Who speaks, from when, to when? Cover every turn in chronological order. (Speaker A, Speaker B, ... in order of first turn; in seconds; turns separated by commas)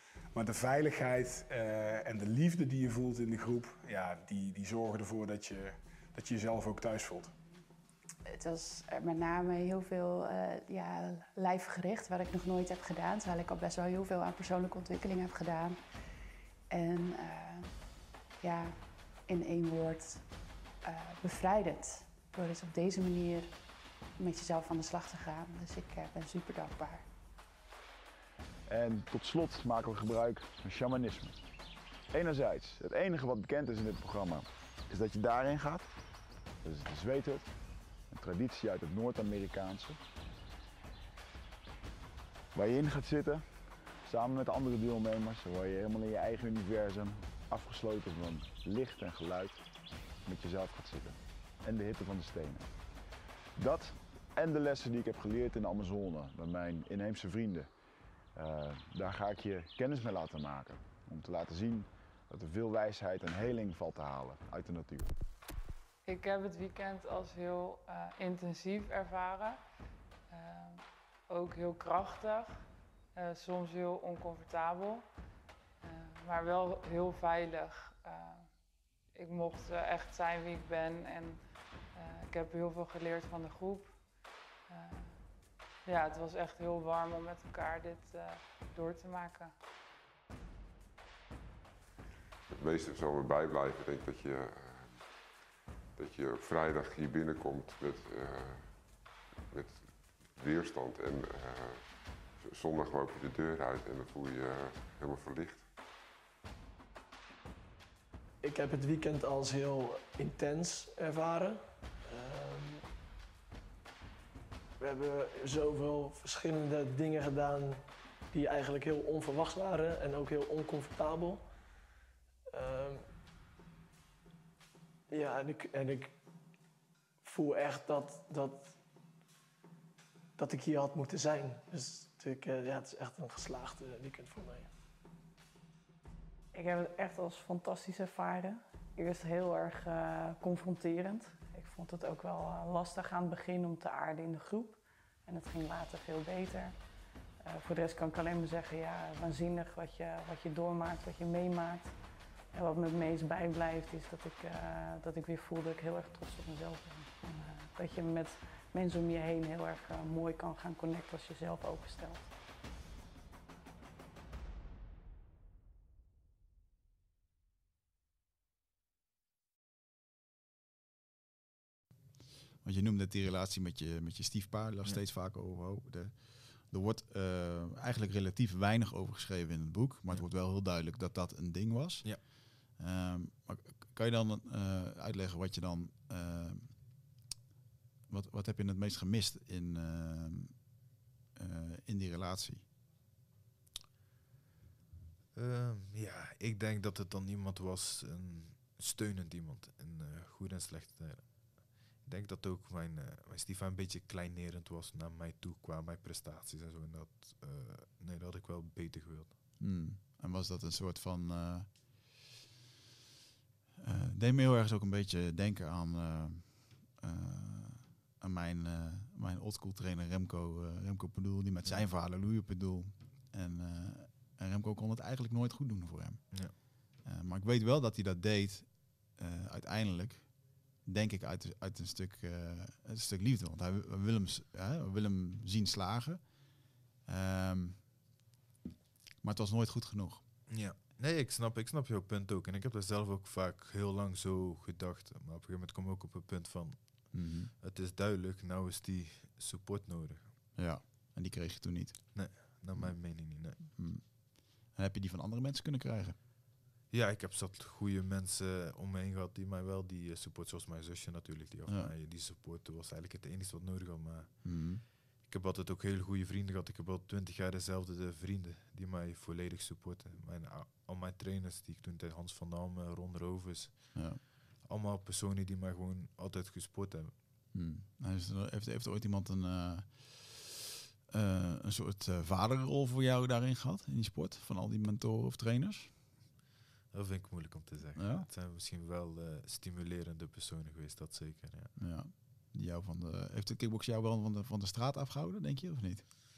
Speaker A: 0.3-7.3, Speaker B: 8.2-15.8, Speaker B: 16.7-17.7, Speaker B: 18.4-20.2, Speaker B: 20.8-23.5, Speaker B: 24.2-27.1, Speaker C: 28.7-31.4, Speaker C: 32.1-35.9, Speaker C: 36.6-37.5, Speaker C: 38.1-40.0, Speaker C: 42.5-43.4, Speaker C: 44.0-49.6, Speaker C: 50.2-52.7, Speaker C: 53.5-57.7, Speaker C: 58.3-65.1, Speaker D: 66.0-69.6, Speaker D: 70.3-72.6, Speaker D: 73.1-75.1, Speaker D: 75.8-78.5, Speaker D: 79.1-81.4, Speaker D: 81.9-83.9, Speaker D: 84.7-85.2, Speaker D: 85.8-89.5, Speaker E: 92.5-95.0, Speaker E: 96.0-98.7, Speaker E: 99.5-101.8, Speaker E: 102.4-105.6, Speaker F: 108.4-112.8, Speaker F: 114.8-121.5, Speaker F: 122.5-123.1, Speaker F: 125.1-126.1, Speaker F: 127.2-128.8, Speaker F: 130.4-134.7, Speaker G: 136.5-146.7, Speaker G: 147.4-151.9, Speaker G: 152.5-162.3, Speaker H: 172.6-186.7, Speaker H: 188.1-190.8, Speaker H: 191.3-192.7, Speaker I: 195.3-209.4, Speaker H: 209.6-212.0, Speaker H: 213.8-237.9, Speaker H: 239.2-240.2, Speaker I: 240.5-250.3, Speaker H: 247.1-247.5, Speaker H: 250.6-256.2, Speaker I: 252.1-253.6, Speaker I: 256.9-264.5, Speaker H: 264.4-264.8, Speaker I: 265.2-274.1, Speaker H: 273.9-274.2, Speaker I: 274.6-277.1, Speaker H: 277.5-280.6, Speaker H: 281.1-285.9, Speaker I: 286.9-291.7, Speaker H: 287.9-288.3, Speaker H: 291.8-296.0